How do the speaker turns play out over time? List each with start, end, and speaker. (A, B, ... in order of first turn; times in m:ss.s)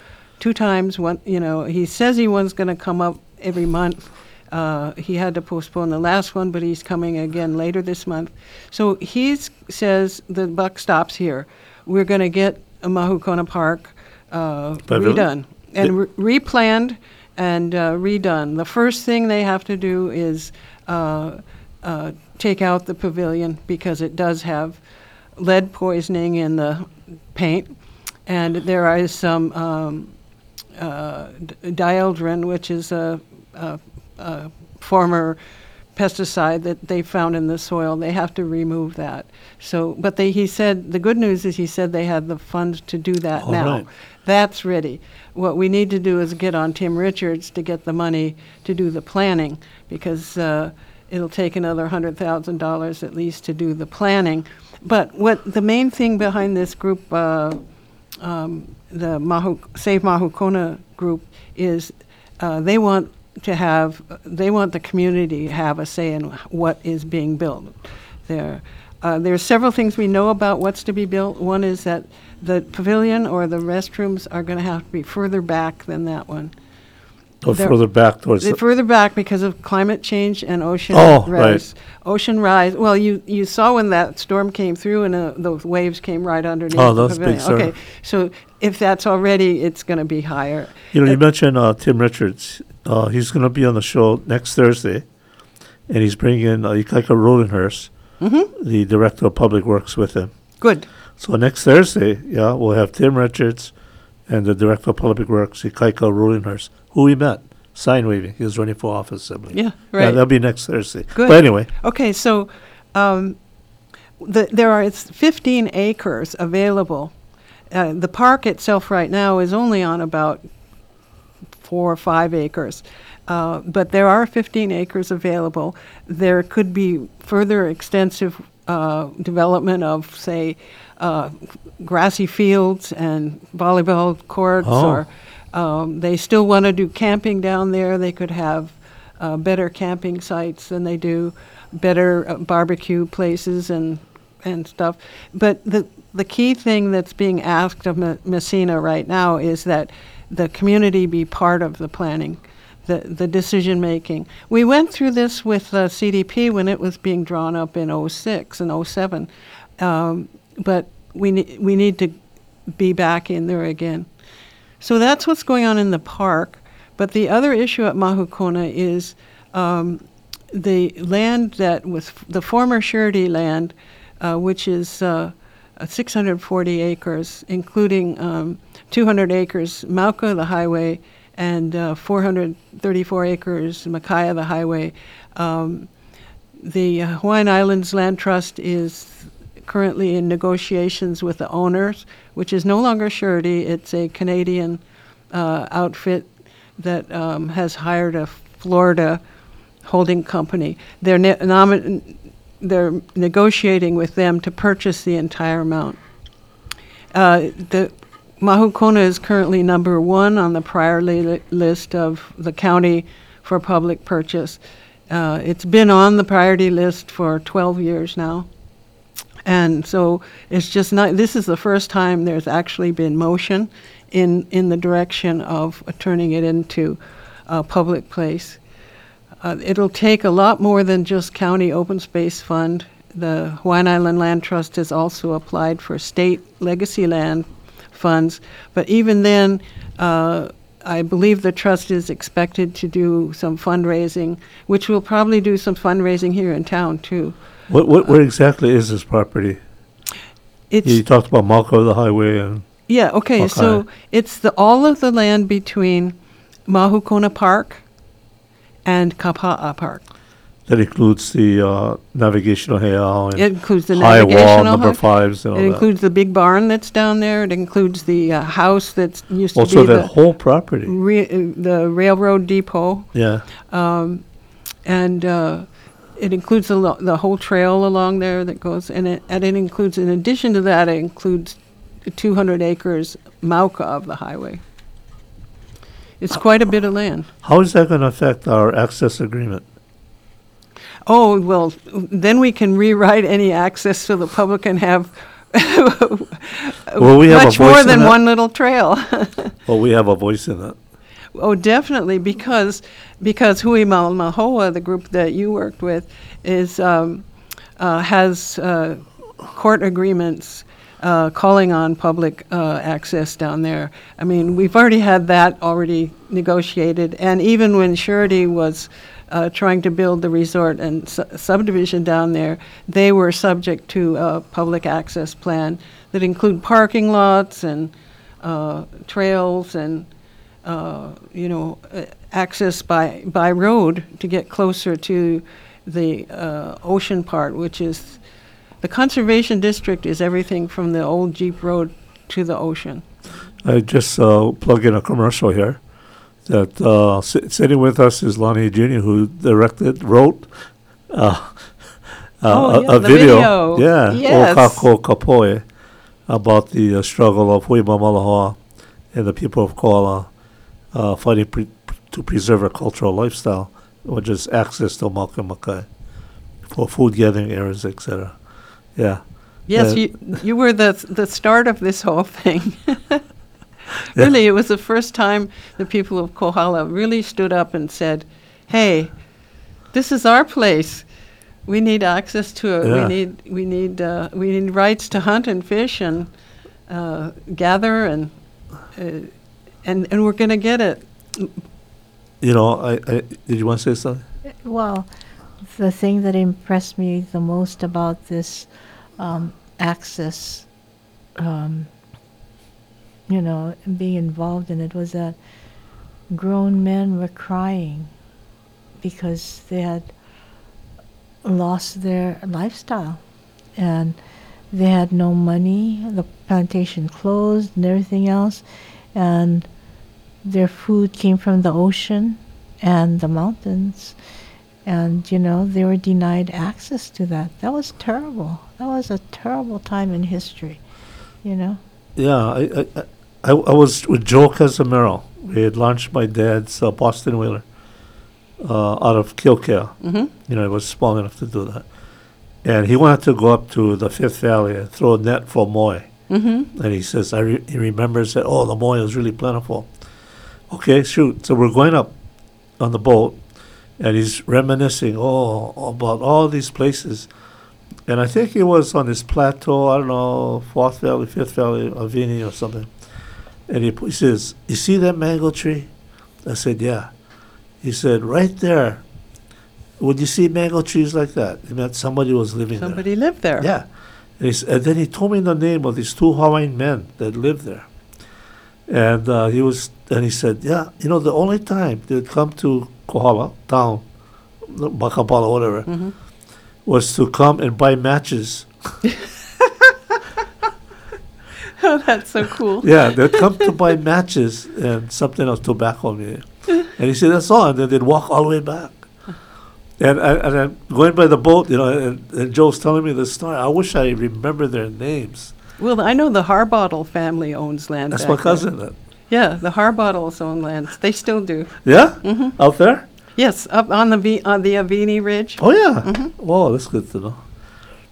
0:00.4-0:24.8 A
0:14.9-0:15.3 B
0:25.4-0:30.2 A
0:30.8-0:35.4 A
0:35.9-0:57.6 A
0:43.4-0:43.9 B
0:58.2-1:16.5 A
1:17.4-1:18.6 B
1:18.4-1:31.2 A
1:20.9-1:21.6 B
1:26.7-1:27.7 B
1:30.9-1:35.1 B
1:35.9-1:37.9 B
1:38.2-1:38.5 A
1:38.6-1:40.3 B
1:40.6-1:40.9 A
1:41.2-1:43.7 B
1:44.3-1:51.7 B
1:49.5-1:50.2 A
1:51.1-1:53.4 A
1:54.2-1:57.1 A
1:57.7-2:00.4 A
2:01.6-2:42.2 A
2:14.6-2:15.0 B
2:42.7-2:44.1 A
2:44.8-3:05.9 A
3:06.6-3:19.2 A
3:19.8-3:26.0 A
3:27.1-3:38.5 A
3:39.5-3:48.6 A
3:49.4-4:07.4 A
4:07.7-4:09.6 B
4:10.7-4:11.0 A
4:10.8-4:12.7 B
4:12.9-4:16.2 A
4:13.4-4:13.8 B
4:16.7-4:17.8 A
4:18.8-4:20.0 A
4:20.7-4:25.9 B
4:23.4-4:25.0 A
4:25.5-4:30.1 A
4:29.6-4:30.9 B
4:30.8-4:33.1 A
4:33.1-4:33.5 B
4:33.7-4:34.2 A
4:34.8-4:44.6 A
4:46.2-4:47.3 A
4:47.4-4:49.6 B
4:51.1-4:59.6 A
4:57.0-4:58.2 B
4:59.7-5:00.8 B
5:01.4-5:07.3 A
5:07.8-5:30.1 A
5:30.6-5:38.2 A
5:38.8-5:43.0 A
5:43.6-5:45.8 B
5:46.5-5:50.5 B
5:51.1-5:55.6 B
5:52.5-5:54.8 A
5:56.3-5:58.6 B
5:59.1-6:00.3 B
6:00.9-6:05.9 B
6:06.7-6:08.4 B
6:09.0-6:09.2 B
6:09.7-6:13.2 A
6:09.7-6:10.1 B
6:14.2-6:19.2 A
6:19.9-6:21.1 A
6:21.7-6:26.3 A
6:22.8-6:23.2 B
6:26.9-6:28.3 A
6:29.0-6:29.3 A
6:29.8-6:31.5 A
6:32.4-6:34.2 B
6:34.6-6:35.1 C
6:35.7-6:40.7 C
6:41.4-6:41.9 C
6:43.3-6:45.4 C
6:46.3-6:48.1 C
6:49.0-6:50.1 C
6:51.4-6:53.2 C
6:53.8-6:54.2 C
6:54.7-6:59.7 C
7:00.4-7:04.2 C
7:04.8-7:10.8 C
7:11.4-7:11.8 C
7:12.2-7:17.6 B
7:18.6-7:21.9 B
7:20.0-7:20.3 A
7:22.6-7:26.1 B
7:26.3-7:26.7 A
7:26.7-7:29.9 B
7:30.7-7:32.1 B
7:32.8-7:33.4 B
7:34.0-7:37.3 B
7:38.1-7:42.9 B
7:43.7-7:45.9 B
7:46.4-7:47.1 B
7:47.8-7:49.0 B
7:50.0-7:53.0 B
7:52.8-7:53.7 A
7:53.6-7:53.9 B
7:54.4-7:57.9 B
7:58.9-8:04.1 B
8:04.6-8:05.9 B
8:05.9-8:06.1 A
8:06.8-8:08.7 B
8:09.1-8:10.2 A
8:11.7-8:13.7 A
8:12.8-8:19.0 B
8:20.0-8:25.6 B
8:25.8-8:28.7 A
8:28.1-8:28.9 B
8:29.3-8:32.6 A
8:31.8-8:33.1 B
8:33.4-8:36.3 A
8:35.6-8:37.4 B